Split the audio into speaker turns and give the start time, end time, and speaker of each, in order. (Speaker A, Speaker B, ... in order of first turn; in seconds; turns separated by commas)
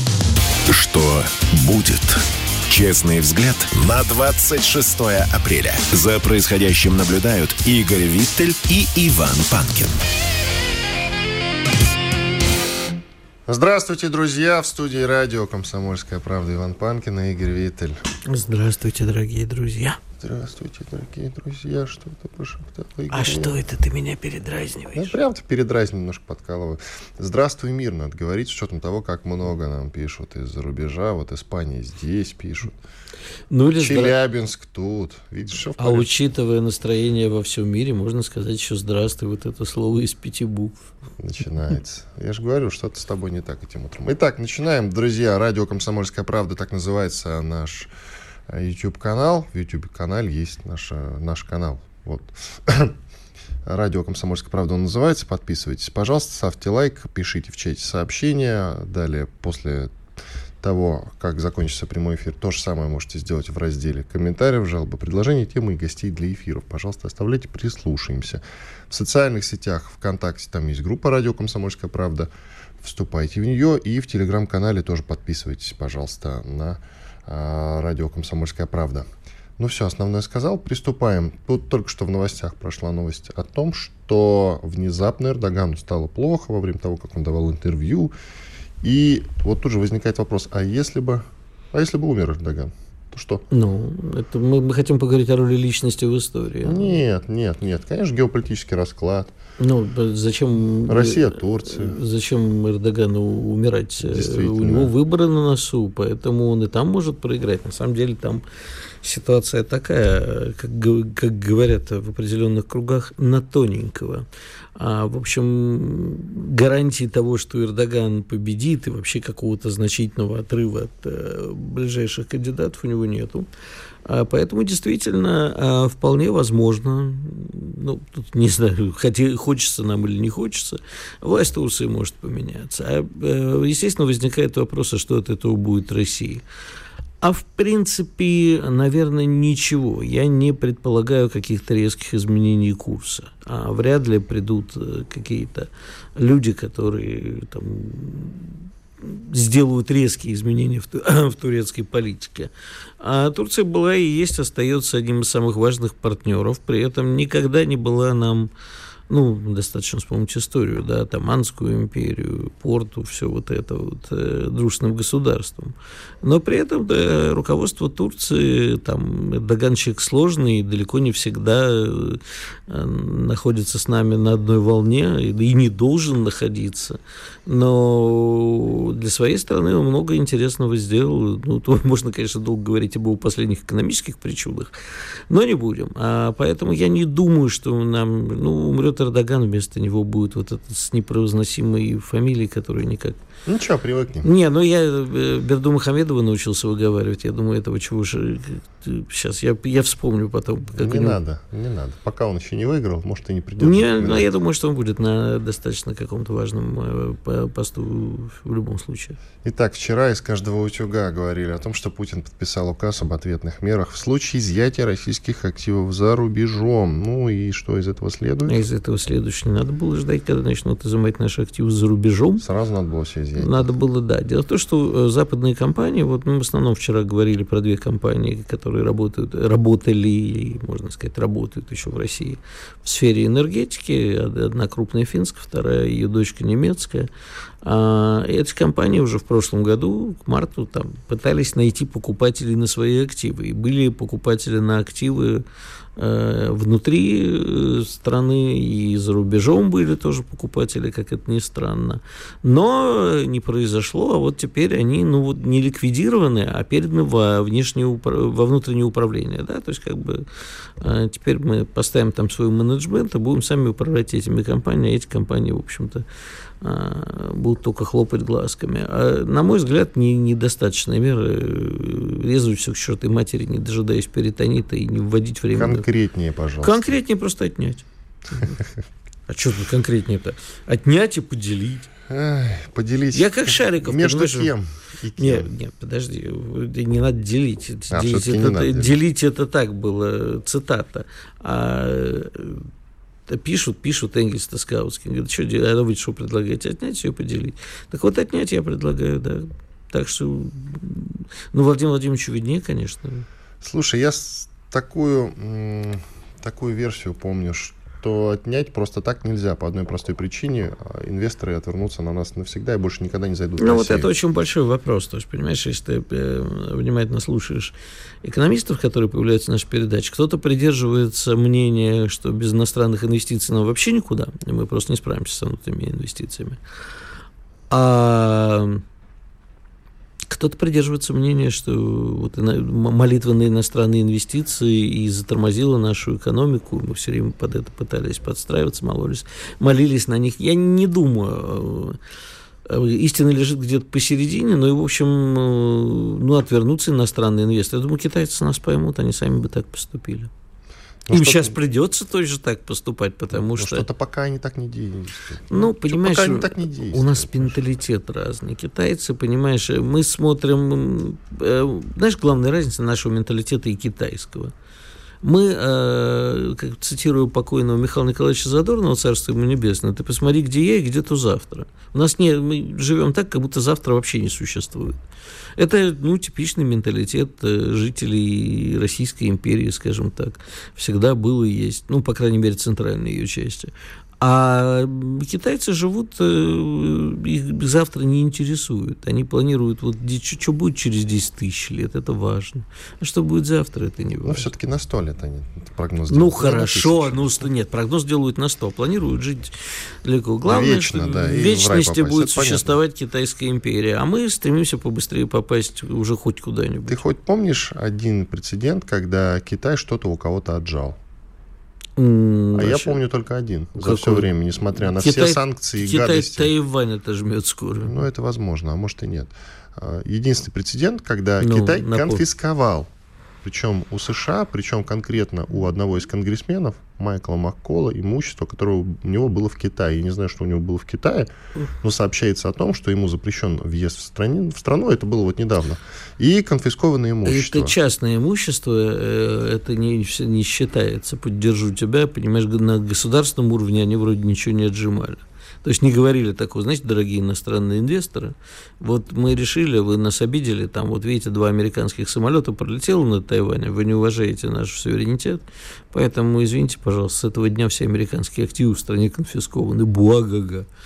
Speaker A: 0.7-10.0, Speaker B: 13.5-18.0, Speaker C: 18.3-20.0, Speaker B: 20.2-23.6, Speaker C: 23.1-25.1, Speaker B: 24.9-32.8, Speaker C: 33.5-34.1, Speaker B: 33.8-36.1, Speaker C: 35.8-40.8, Speaker B: 41.2-47.9, Speaker B: 48.5-53.0, Speaker B: 53.6-59.9, Speaker B: 60.6-72.3, Speaker B: 72.8-79.1, Speaker B: 79.6-88.1, Speaker B: 88.8-93.4, Speaker C: 93.5-97.0, Speaker B: 96.6-99.3, Speaker C: 99.6-108.4, Speaker B: 100.9-102.0, Speaker B: 104.0-104.9, Speaker C: 109.0-123.5, Speaker C: 124.0-136.4, Speaker C: 137.2-158.5, Speaker C: 159.1-184.7, Speaker C: 185.3-193.2, Speaker B: 193.4-194.3, Speaker C: 194.2-201.2, Speaker B: 200.7-204.3, Speaker C: 203.6-209.2, Speaker B: 209.4-218.6, Speaker C: 218.5-222.4, Speaker B: 222.4-223.7, Speaker C: 223.4-237.1, Speaker C: 237.6-245.4, Speaker C: 246.0-260.2, Speaker C: 260.8-266.0, Speaker C: 266.6-275.8, Speaker B: 275.5-276.9, Speaker C: 276.6-278.6, Speaker C: 279.3-281.9, Speaker B: 282.1-285.5, Speaker C: 283.1-284.5, Speaker C: 285.2-292.7, Speaker B: 287.9-288.9, Speaker C: 293.3-303.2, Speaker B: 303.6-314.1, Speaker C: 313.6-326.6, Speaker C: 327.7-328.8, Speaker C: 330.3-342.0, Speaker C: 342.7-350.3, Speaker B: 351.1-351.6, Speaker C: 351.1-353.9, Speaker B: 353.3-357.6, Speaker C: 355.5-364.5, Speaker C: 365.2-374.9, Speaker C: 375.6-394.5, Speaker B: 394.2-397.5, Speaker C: 396.1-399.5, Speaker C: 400.0-407.0, Speaker B: 400.4-402.8, Speaker B: 406.9-411.0, Speaker C: 412.0-413.0, Speaker B: 412.5-416.5, Speaker C: 413.8-417.9, Speaker B: 417.8-422.9, Speaker C: 421.4-422.2, Speaker B: 423.4-431.3, Speaker B: 431.8-437.7, Speaker C: 437.2-460.7